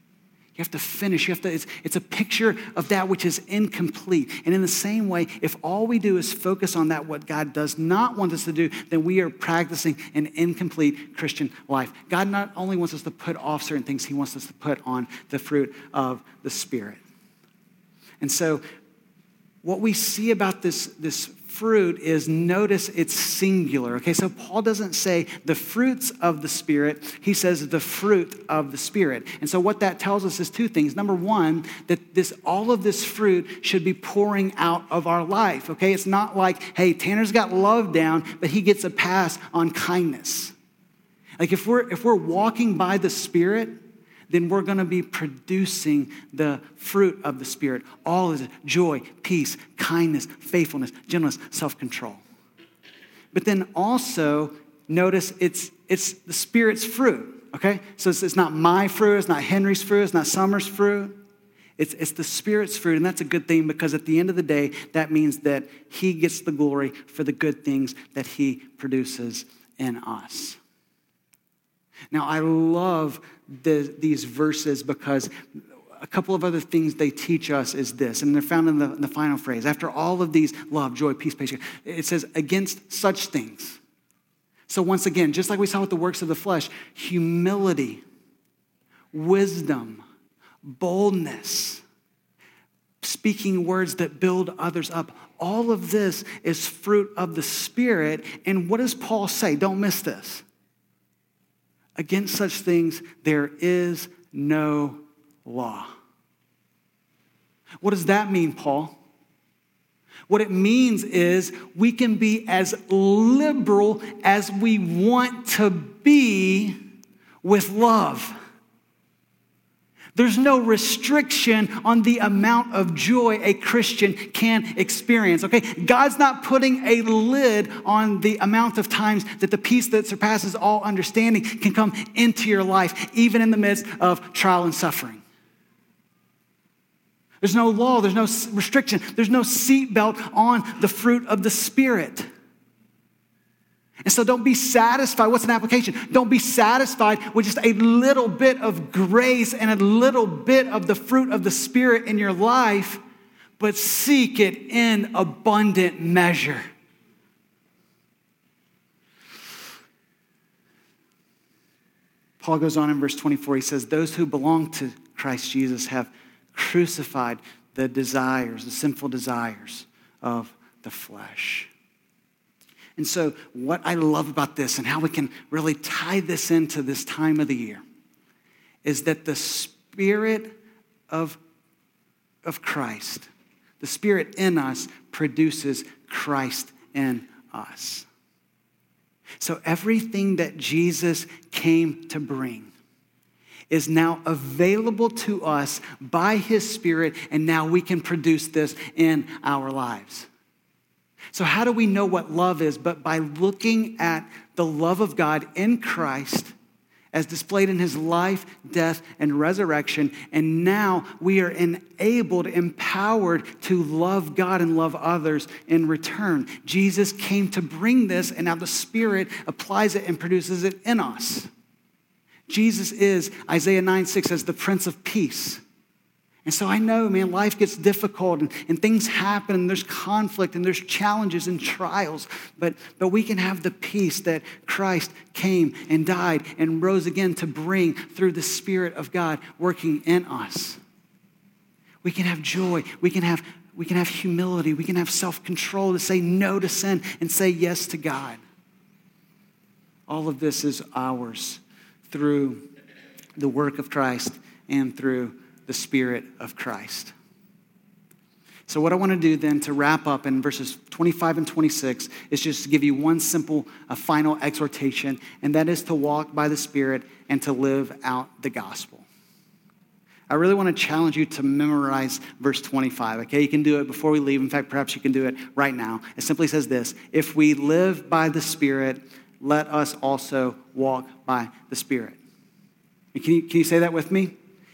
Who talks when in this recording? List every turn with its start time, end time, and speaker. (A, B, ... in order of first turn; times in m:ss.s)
0:00.6-0:17.0 A
0:18.2-0:18.6 A
0:19.6-0:40.5 A
0:41.4-0:43.8 A
0:44.3-0:52.2 A
0:53.3-1:01.2 A
1:01.8-1:10.6 A
1:12.1-1:15.3 A
1:16.0-1:23.8 A
1:24.7-1:28.0 A
1:29.1-1:30.0 A
1:30.6-1:31.8 A
1:33.0-1:40.4 A
1:42.0-1:45.9 A
1:47.8-1:49.0 A
1:50.3-1:56.8 A
1:57.4-1:58.4 A
2:00.2-2:15.2 A
2:17.4-2:22.3 A
2:24.1-2:33.0 A
2:33.6-2:36.6 A
2:42.4-2:51.7 A
2:53.0-2:57.8 A
2:58.8-3:00.6 A
3:01.1-3:01.4 A
3:02.4-3:03.3 A
3:03.8-3:08.1 A
3:09.4-3:12.7 A
3:13.7-3:20.3 A
3:21.3-3:26.5 A
3:27.1-3:41.5 A
3:42.5-3:45.6 A
3:46.4-4:00.8 A
4:02.0-4:08.4 A
4:10.1-4:12.7 A
4:13.4-4:17.2 A
4:18.7-4:29.1 A
4:30.3-4:42.2 A
4:43.1-4:44.3 A